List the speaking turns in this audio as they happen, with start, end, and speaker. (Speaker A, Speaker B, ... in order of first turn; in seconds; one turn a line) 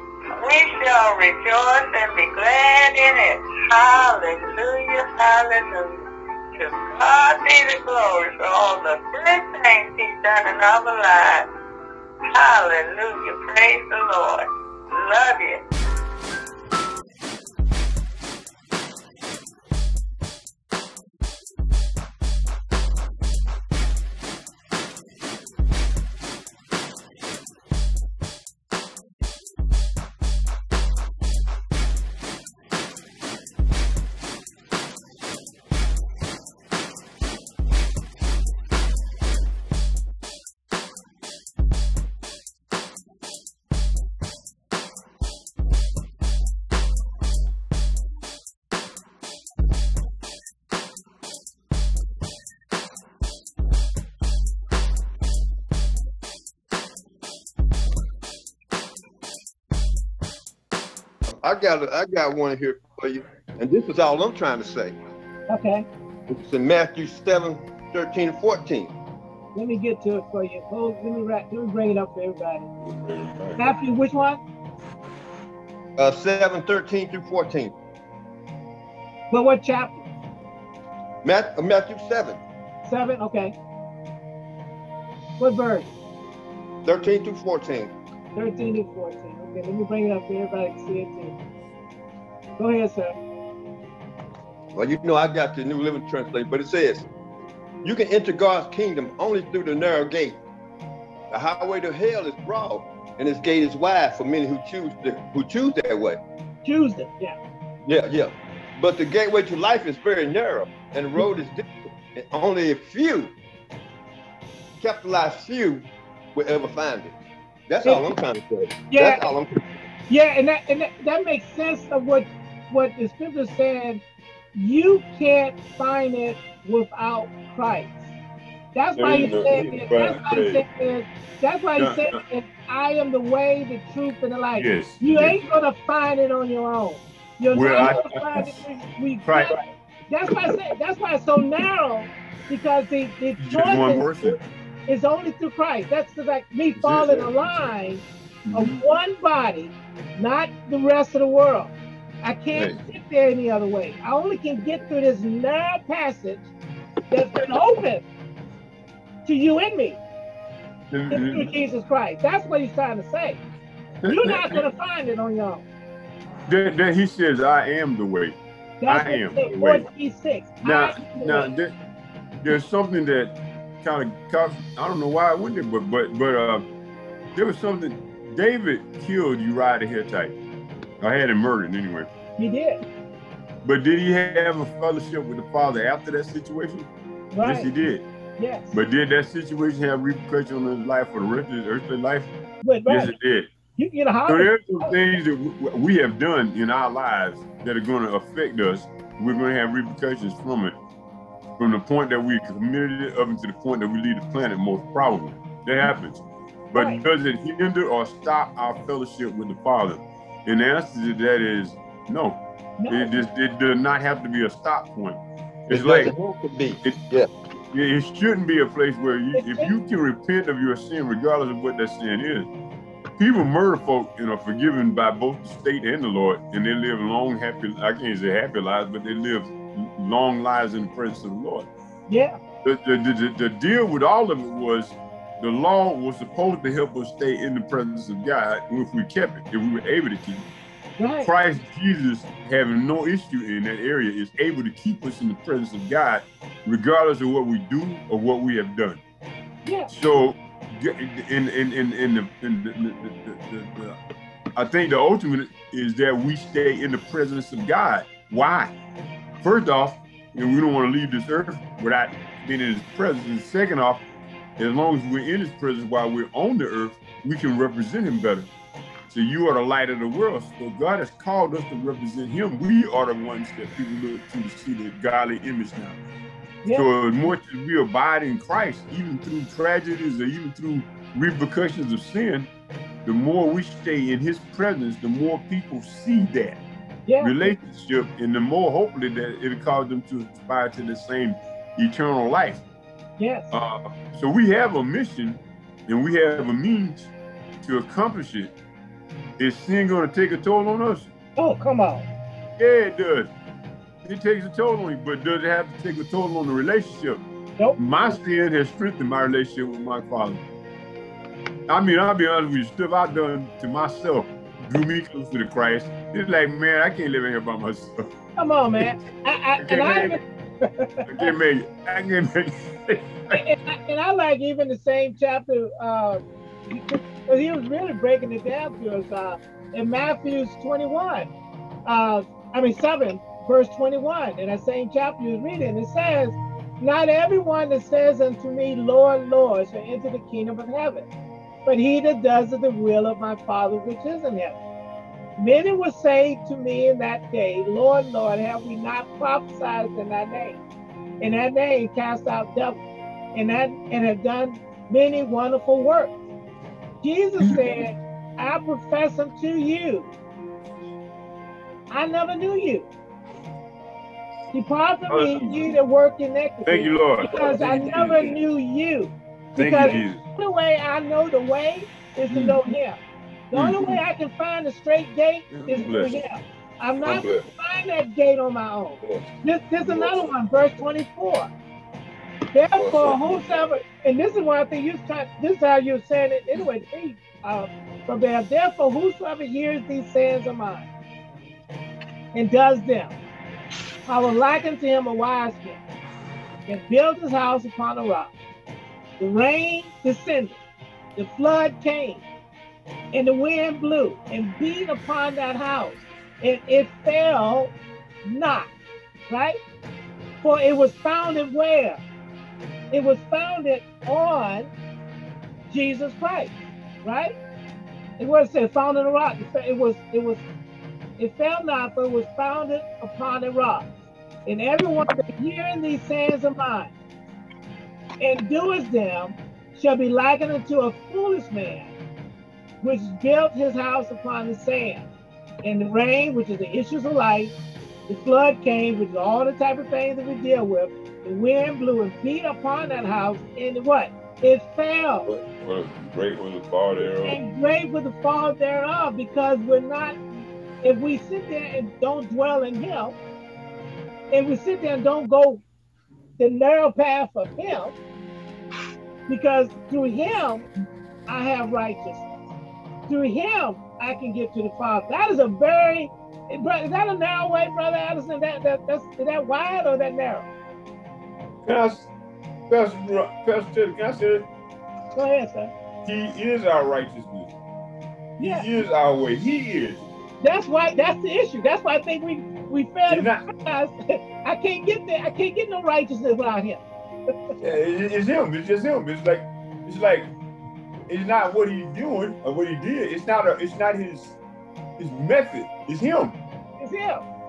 Speaker A: 0.4-6.0
Speaker A: 6.6-11.5
Speaker A: 12.3-15.6
Speaker B: 61.3-65.0
Speaker C: 65.5-65.9
Speaker B: 66.3-68.9
Speaker C: 69.5-72.7
Speaker D: 72.8-73.7
Speaker C: 73.6-74.4
Speaker B: 76.0-77.8
Speaker C: 79.3-80.0
Speaker B: 81.2-82.4
Speaker C: 82.8-83.6
Speaker C: 85.4-85.9
Speaker B: 86.8-87.9
Speaker C: 88.3-91.3
Speaker C: 92.6-93.2
Speaker B: 94.7-97.1
Speaker B: 97.8-100.4
Speaker B: 101.3-106.2
Speaker C: 106.6-107.3
Speaker B: 107.9-113.4
Speaker B: 114.8-119.8
Speaker C: 117.8-118.1
Speaker C: 118.9-119.3
Speaker C: 120.1-124.0
Speaker C: 124.6-128.1
Speaker C: 128.7-156.5
Speaker D: 129.0-130.6
Speaker D: 131.8-132.2
Speaker D: 134.6-135.4
Speaker D: 137.5-138.6
Speaker D: 139.2-139.6
Speaker D: 140.3-140.6
Speaker D: 143.4-144.4
Speaker D: 146.8-147.7
Speaker D: 148.4-148.8
Speaker D: 152.5-152.8
Speaker C: 157.1-158.1
Speaker C: 159.2-160.0
Speaker D: 160.9-161.5
Speaker C: 161.1-163.4
Speaker D: 164.0-164.6
Speaker C: 164.1-165.7
Speaker D: 166.5-169.9
Speaker C: 168.8-171.5
Speaker D: 170.6-171.7
Speaker D: 172.4-176.7
Speaker D: 177.3-180.4
Speaker D: 181.0-182.1
Speaker C: 182.4-182.8
Speaker D: 183.6-186.9
Speaker C: 187.3-187.7
Speaker D: 187.4-188.1
Speaker C: 188.4-188.8
Speaker D: 188.7-192.3
Speaker C: 192.6-193.1
Speaker D: 192.9-193.5
Speaker C: 193.8-195.0
Speaker D: 194.3-200.8
Speaker D: 201.6-216.2
Speaker C: 206.8-207.0
Speaker C: 212.8-213.1
Speaker B: 215.7-217.3
Speaker D: 216.8-217.1
Speaker D: 217.7-222.5
Speaker C: 219.3-219.7
Speaker D: 223.2-231.7
Speaker C: 232.1-232.4
Speaker D: 232.6-240.5
Speaker C: 241.0-241.3
Speaker D: 241.2-249.0
Speaker C: 249.7-249.9
Speaker D: 249.9-254.0
Speaker D: 254.6-258.7
Speaker D: 259.4-264.1
Speaker D: 264.6-268.5
Speaker D: 269.1-276.0
Speaker D: 276.7-282.5
Speaker D: 283.1-286.6
Speaker C: 287.1-287.5
Speaker D: 287.2-292.7
Speaker C: 293.2-293.5
Speaker D: 293.5-298.6
Speaker D: 299.4-301.1
Speaker C: 301.4-302.1
Speaker D: 302.6-303.3
Speaker D: 304.0-307.2
Speaker C: 307.6-308.2
Speaker D: 307.8-310.4
Speaker D: 311.7-318.1
Speaker C: 318.4-321.3
Speaker D: 319.6-320.2
Speaker D: 321.1-323.4
Speaker C: 323.3-331.3
Speaker C: 331.9-341.1
Speaker C: 341.6-344.6
Speaker C: 345.4-350.6
Speaker C: 351.2-352.8
Speaker C: 353.3-356.1
Speaker C: 357.0-360.1
Speaker D: 357.4-357.7
Speaker C: 361.9-362.9
Speaker C: 364.5-373.0
Speaker D: 365.1-365.8
Speaker D: 366.6-368.4
Speaker D: 369.6-370.2
Speaker D: 372.3-372.6
Speaker C: 373.5-381.5
Speaker D: 373.5-374.0
Speaker D: 375.5-376.2
Speaker D: 377.0-377.5
Speaker D: 379.0-380.3
Speaker C: 382.5-390.9
Speaker D: 382.8-383.7
Speaker C: 392.3-393.1
Speaker C: 394.1-395.8
Speaker C: 396.7-398.3
Speaker C: 399.2-400.6
Speaker C: 401.2-402.3
Speaker C: 403.1-408.7
Speaker C: 409.3-409.6
Speaker C: 410.4-412.0
Speaker C: 412.9-414.7
Speaker C: 415.7-417.4
Speaker C: 418.2-420.4
Speaker C: 421.2-423.9
Speaker C: 424.4-426.9
Speaker C: 428.2-431.9
Speaker C: 432.8-435.1
Speaker C: 435.6-437.5
Speaker C: 438.1-445.3
Speaker D: 445.3-447.4
Speaker C: 447.1-450.2
Speaker C: 450.8-453.2
Speaker C: 454.3-455.6
Speaker C: 456.4-458.0
Speaker C: 459.3-460.7
Speaker C: 461.3-462.3
Speaker C: 463.1-470.5
Speaker D: 471.6-472.1
Speaker D: 472.7-474.5
Speaker C: 475.1-475.7
Speaker D: 476.1-477.5
Speaker C: 478.4-478.7
Speaker D: 478.4-480.0
Speaker C: 480.4-486.8
Speaker D: 483.1-483.4
Speaker D: 487.6-490.3
Speaker D: 491.1-494.4
Speaker D: 495.0-496.4
Speaker C: 496.8-497.2